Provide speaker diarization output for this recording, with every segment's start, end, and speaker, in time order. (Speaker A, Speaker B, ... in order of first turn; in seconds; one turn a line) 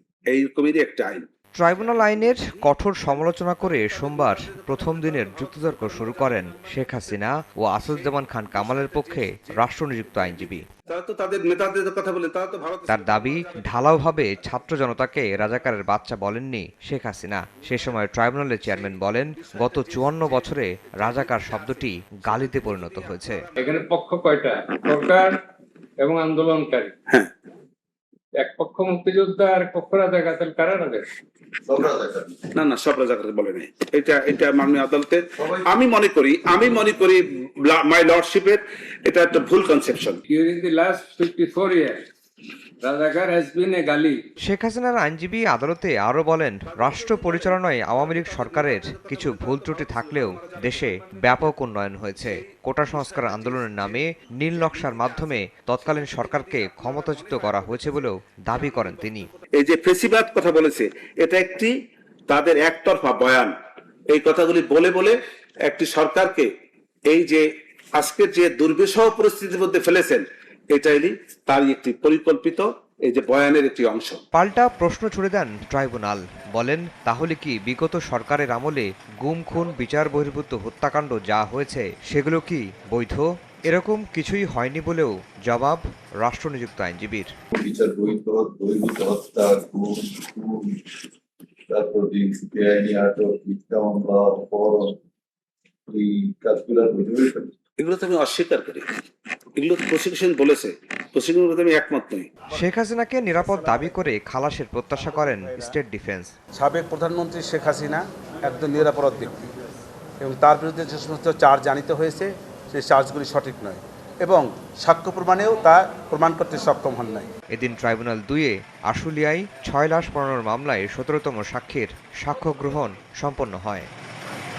Speaker A: 0.3-1.2
Speaker B: 1.6-10.6
Speaker A: 10.4-13.2
Speaker B: 12.9-23.4
Speaker A: 19.4-20.1
Speaker C: 23.6-25.4
Speaker C: 26.0-26.9
Speaker C: 28.4-31.1
Speaker D: 31.6-32.5
Speaker A: 32.5-40.2
Speaker D: 35.4-35.6
Speaker C: 40.3-42.0
Speaker C: 42.8-44.2
Speaker B: 44.4-59.3
Speaker A: 48.2-50.4
Speaker A: 59.5-61.7
Speaker A: 62.3-63.5
Speaker A: 64.1-66.5
Speaker A: 67.1-74.2
Speaker B: 74.3-87.3
Speaker D: 87.5-90.8
Speaker D: 91.7-95.0
Speaker D: 95.9-97.5
Speaker A: 97.8-98.8
Speaker A: 99.5-102.3
Speaker B: 102.5-106.3
Speaker E: 103.4-104.0
Speaker E: 104.9-105.7
Speaker E: 106.6-109.5
Speaker E: 110.2-117.3
Speaker B: 117.5-123.9